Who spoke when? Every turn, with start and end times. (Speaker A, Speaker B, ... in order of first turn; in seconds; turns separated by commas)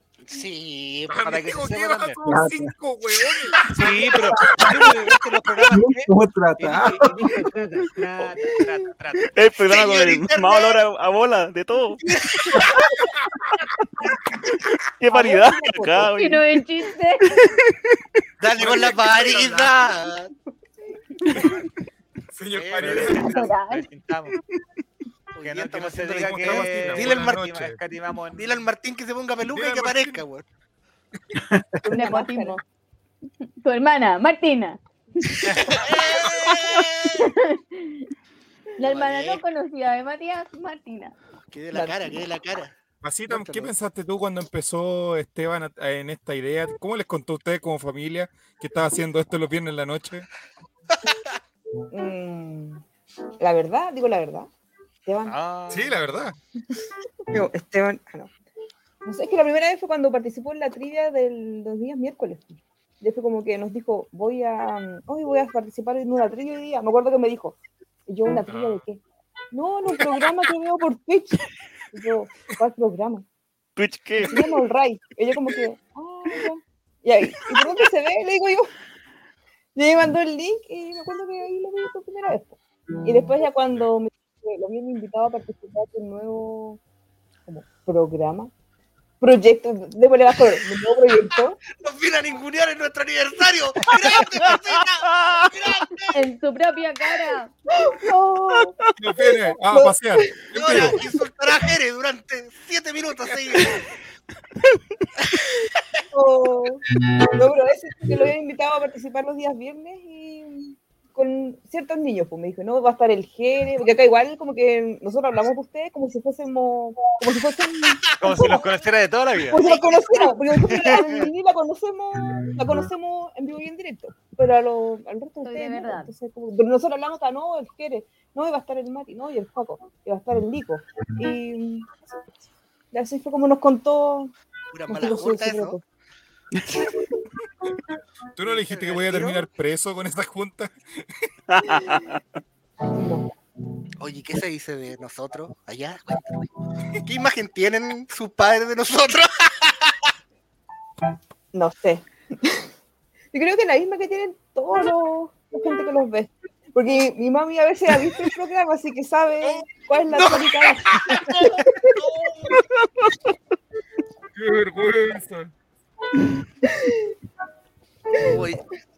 Speaker A: 0.2-1.2, Speaker B: 1.1-4.5, Speaker C: 1.2-2.2, Speaker D: 2.2-2.7, Speaker C: 3.7-5.0, Speaker A: 3.8-6.1, Speaker D: 4.3-5.0, Speaker D: 5.7-7.3, Speaker C: 6.6-9.3, Speaker E: 9.3-12.1, Speaker A: 9.6-10.8, Speaker A: 12.0-12.8, Speaker E: 15.0-16.4, Speaker F: 15.1-16.1, Speaker G: 16.1-17.5, Speaker A: 18.4-20.3, Speaker B: 18.6-19.8, Speaker B: 22.3-23.4, Speaker A: 22.5-23.2, Speaker C: 22.8-24.4, Speaker G: 23.2-23.9, Speaker A: 25.3-27.4, Speaker C: 25.4-28.7, Speaker B: 26.2-27.8, Speaker A: 28.4-30.4, Speaker B: 29.5-30.2, Speaker F: 31.8-32.6, Speaker G: 31.9-32.6, Speaker G: 33.6-35.4, Speaker A: 35.7-37.2, Speaker B: 36.2-36.5, Speaker G: 37.1-38.0, Speaker G: 38.8-41.1, Speaker A: 38.8-39.4, Speaker A: 41.5-42.8, Speaker F: 41.7-42.2, Speaker B: 43.0-50.3, Speaker A: 43.3-43.7, Speaker F: 51.9-52.8, Speaker F: 53.4-54.5, Speaker F: 55.1-55.4, Speaker C: 55.3-56.1, Speaker B: 55.7-56.4, Speaker F: 57.3-58.3, Speaker F: 59.0-69.0, Speaker B: 68.4-68.8, Speaker F: 69.5-73.2, Speaker E: 73.8-74.6, Speaker F: 74.2-78.7, Speaker F: 79.8-86.8, Speaker F: 87.5-88.5, Speaker F: 89.2-91.6, Speaker A: 91.7-96.2, Speaker G: 96.1-97.5, Speaker F: 97.7-98.8, Speaker E: 98.5-98.9, Speaker B: 99.0-101.0, Speaker F: 99.7-101.0, Speaker A: 100.5-103.8, Speaker F: 106.1-118.6, Speaker C: 118.2-120.2, Speaker F: 119.5-131.9, Speaker G: 125.4-126.1, Speaker F: 132.9-134.3, Speaker A: 134.7-135.8, Speaker F: 134.9-135.8, Speaker B: 138.4-140.7, Speaker A: 138.4-139.5, Speaker E: 141.5-142.2, Speaker F: 142.9-143.3, Speaker A: 144.0-146.3, Speaker A: 147.0-150.0, Speaker F: 151.5-152.7, Speaker F: 153.3-162.0, Speaker A: 160.1-162.6, Speaker B: 164.3-165.5, Speaker F: 166.6-167.0, Speaker A: 168.2-168.6